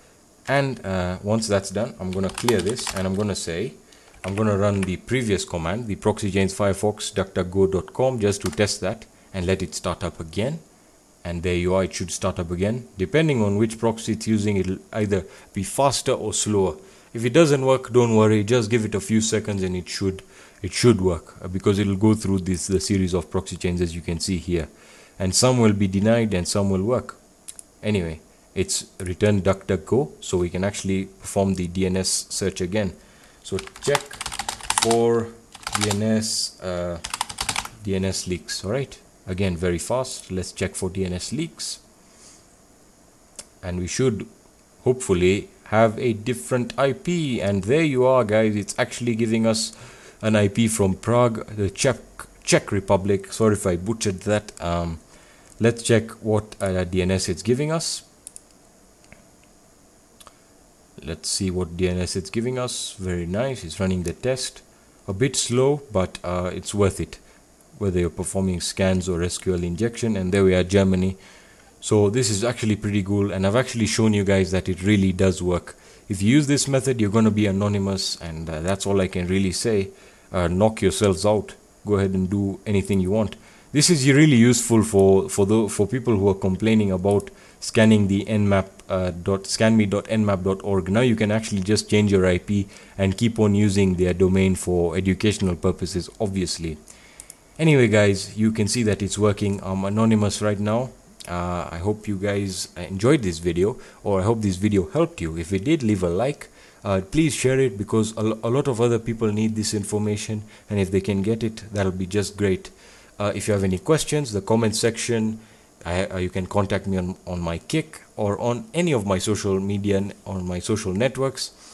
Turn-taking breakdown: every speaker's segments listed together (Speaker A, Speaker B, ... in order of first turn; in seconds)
Speaker A: 0.5-10.6, 11.2-27.2, 27.8-37.0, 37.8-41.8, 43.6-44.3, 44.8-55.0, 55.6-58.1, 61.0-67.2, 67.8-71.2, 71.8-96.8, 97.6-121.5